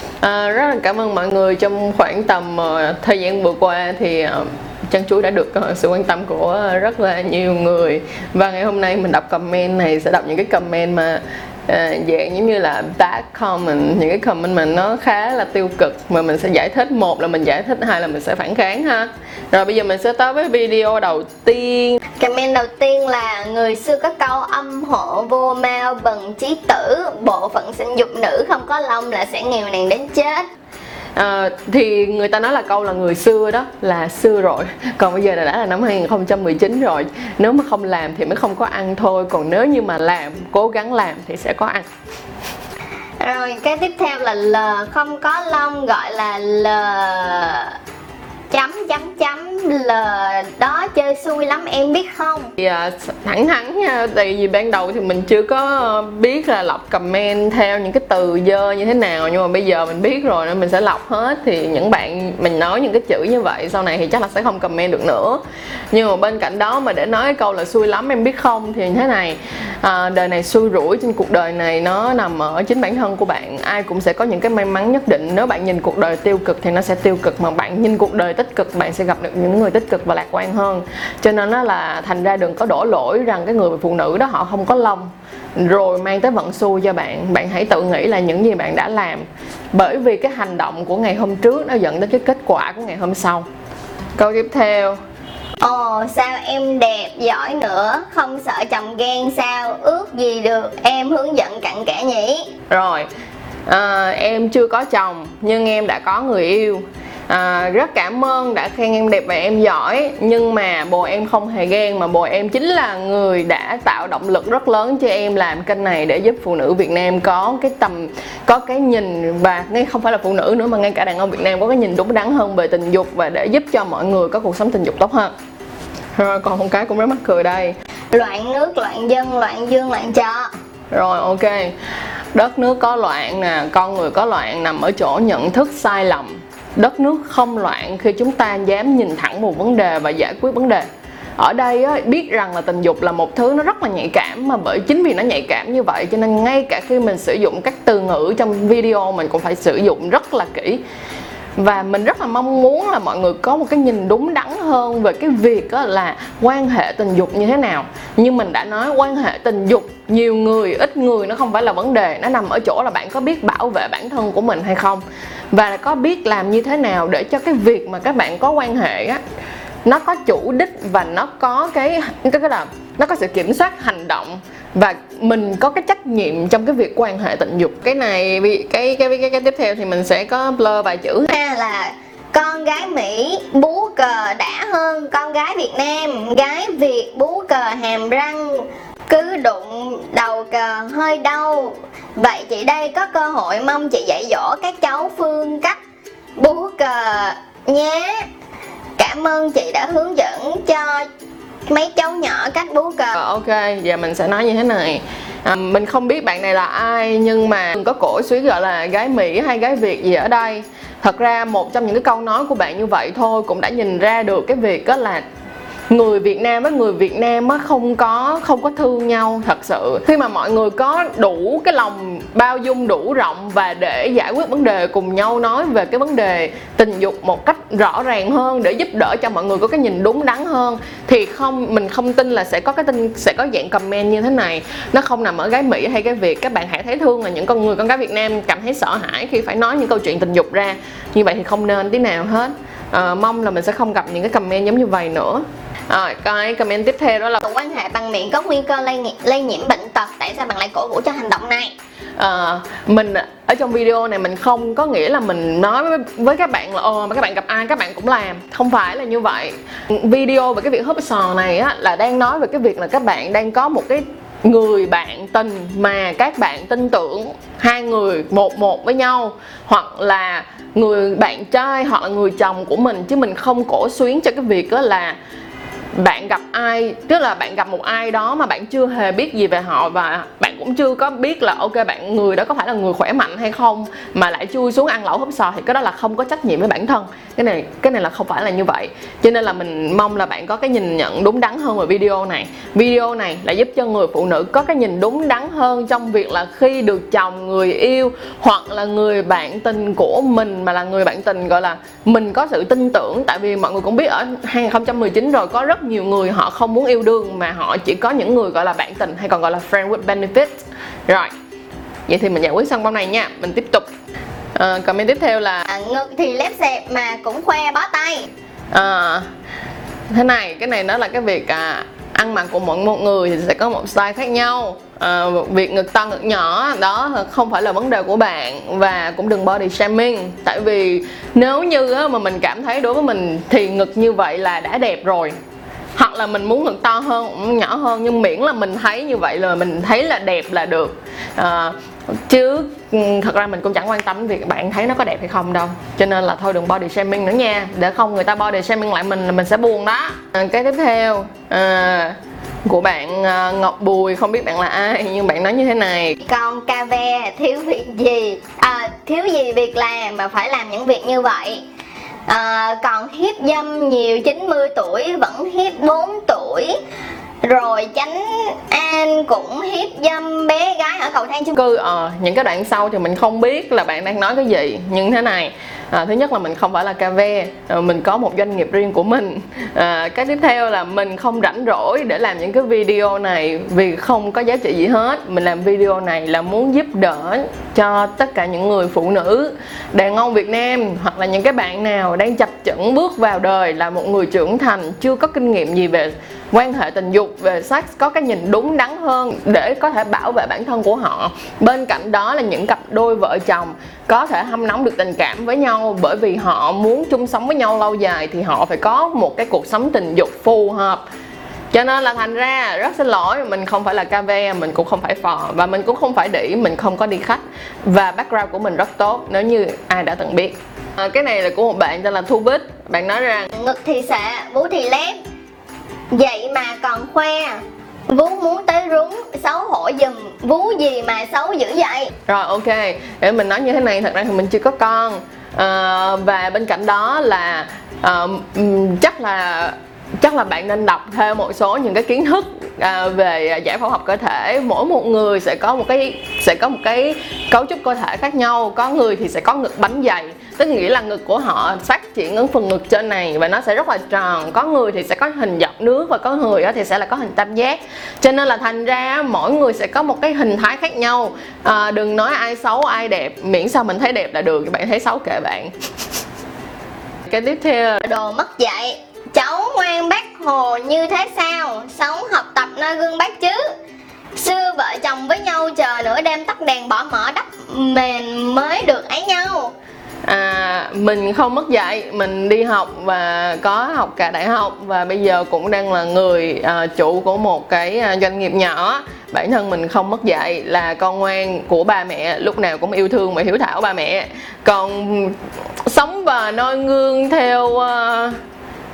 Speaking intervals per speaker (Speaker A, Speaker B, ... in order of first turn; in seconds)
Speaker A: 0.2-22.0, 31.1-41.9, 52.6-65.4, 65.9-93.5, 94.2-95.0, 102.7-103.1, 103.7-125.3, 126.2-127.8, 130.9-131.7, 132.3-140.8, 141.4-150.8, 151.6-169.2, 169.8-181.3, 203.1-215.2, 215.9-247.4, 252.2-275.2, 275.9-311.3, 312.1-313.9, 314.5-315.7, 318.7-319.3, 320.1-335.3, 335.9-356.2, 371.6-411.0, 411.7-423.5, 432.3-465.7, 467.2-468.0, 480.2-498.4
Speaker B: 22.2-30.4, 43.2-47.8, 48.5-52.5, 95.6-102.5, 128.1-130.5, 181.3-195.8, 196.4-198.3, 199.0-201.1, 201.7-203.2, 247.4-251.7, 315.7-318.3, 356.2-361.6, 362.3-366.8, 367.4-371.6, 423.5-425.2, 426.1-432.1, 468.0-473.7, 474.3-479.7